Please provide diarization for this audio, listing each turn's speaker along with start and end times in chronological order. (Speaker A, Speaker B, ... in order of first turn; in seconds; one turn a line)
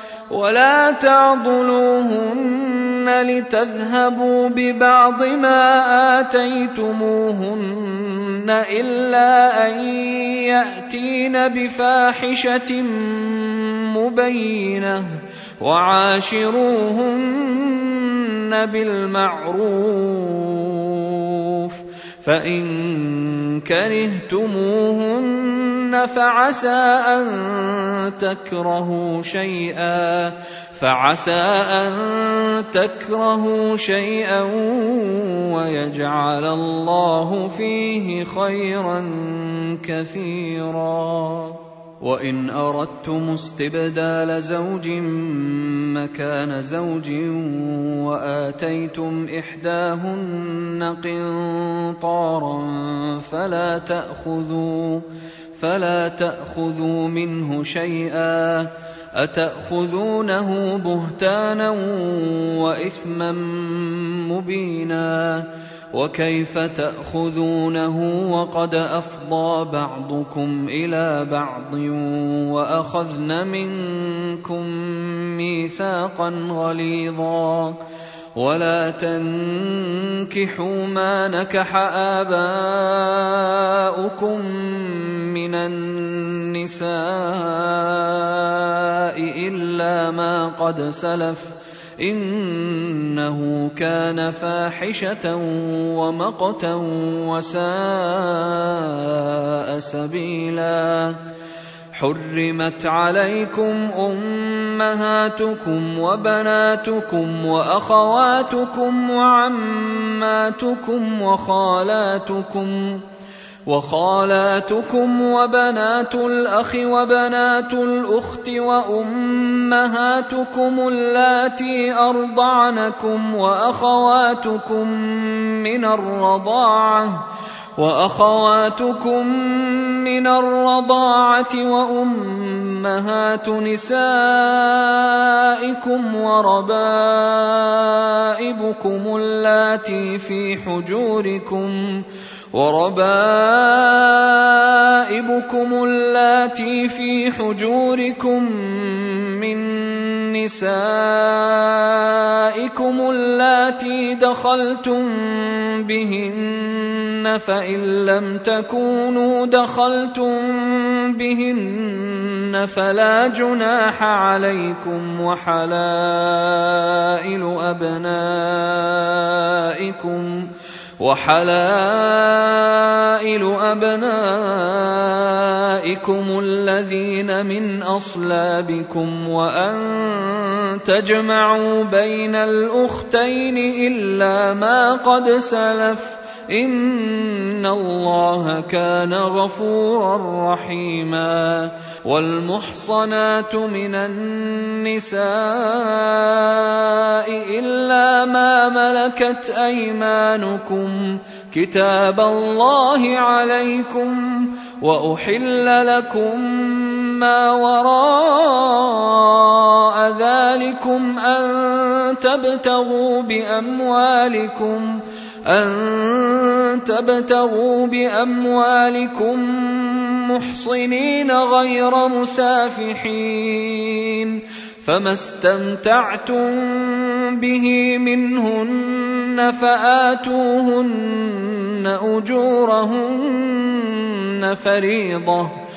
Speaker A: 0.3-77.8
Speaker A: 78.4-101.2
Speaker A: 101.9-113.0
Speaker A: 113.7-127.2
Speaker A: 127.8-235.5